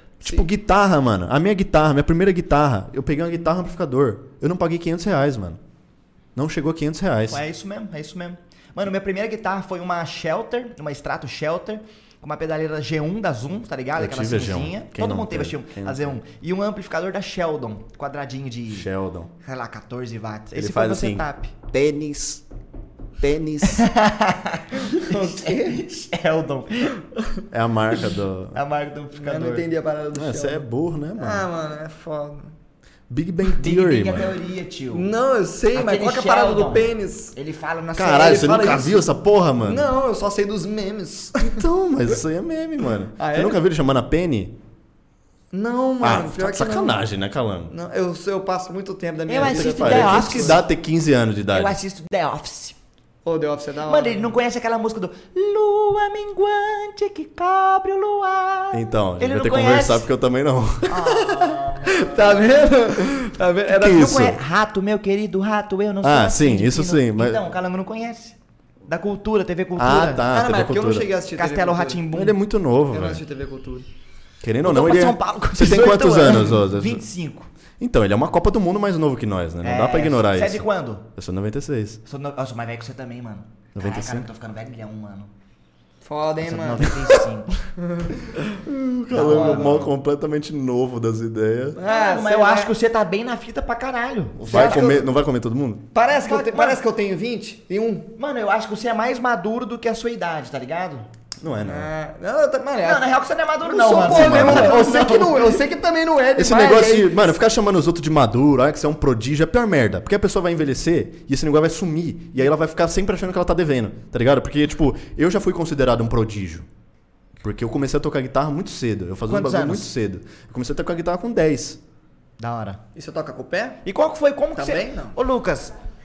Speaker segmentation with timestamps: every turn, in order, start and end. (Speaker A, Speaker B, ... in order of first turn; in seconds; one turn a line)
Speaker A: 0.2-5.6
Speaker A: 6.3-7.4
Speaker B: 7.3-18.9
Speaker A: 13.9-16.2
Speaker A: 18.7-19.3
Speaker B: 19.4-21.6
Speaker A: 20.5-22.4
Speaker A: 23.2-23.9
Speaker B: 23.6-27.0
Speaker C: 24.8-25.8
Speaker A: 27.5-28.6
Speaker B: 28.5-29.7
Speaker C: 29.1-32.5
Speaker A: 30.1-31.5
Speaker A: 33.1-34.4
Speaker B: 33.6-35.1
Speaker C: 34.9-37.3
Speaker B: 35.7-38.7
Speaker A: 38.0-39.9
Speaker C: 38.2-39.0
Speaker C: 39.6-41.6
Speaker A: 41.4-44.6
Speaker C: 43.2-43.6
Speaker C: 45.5-47.0
Speaker A: 46.0-47.7
Speaker C: 47.7-50.6
Speaker B: 49.3-50.6
Speaker A: 49.4-51.8
Speaker B: 51.5-52.8
Speaker C: 53.2-54.3
Speaker B: 53.9-60.1
Speaker A: 58.7-61.2
Speaker B: 60.9-62.5
Speaker C: 61.0-64.1
Speaker A: 63.7-64.4
Speaker B: 63.7-68.3
Speaker A: 66.0-67.4
Speaker B: 68.9-70.2
Speaker A: 69.8-71.1
Speaker C: 70.3-72.0
Speaker B: 71.3-72.3
Speaker A: 72.1-73.2
Speaker C: 72.9-73.9
Speaker A: 74.4-77.0
Speaker B: 74.6-77.5
Speaker A: 77.8-82.0
Speaker B: 79.6-81.1
Speaker B: 82.1-85.3
Speaker A: 83.7-84.3
Speaker C: 86.0-87.2
Speaker B: 86.4-87.5
Speaker C: 87.8-88.4
Speaker A: 88.6-91.8
Speaker B: 89.1-89.9
Speaker C: 89.2-89.7
Speaker C: 91.8-92.7
Speaker B: 91.8-95.0
Speaker A: 94.4-95.9
Speaker C: 94.5-95.0
Speaker C: 95.9-98.1
Speaker B: 96.1-96.8
Speaker B: 98.2-101.1
Speaker A: 101.4-101.9
Speaker C: 101.6-103.0
Speaker B: 102.8-105.5
Speaker C: 103.6-107.1
Speaker A: 104.0-105.0
Speaker A: 106.3-116.7
Speaker A: 117.4-121.8
Speaker B: 119.3-119.9
Speaker B: 122.4-122.8
Speaker C: 122.9-123.8
Speaker B: 123.8-125.7
Speaker C: 124.5-125.2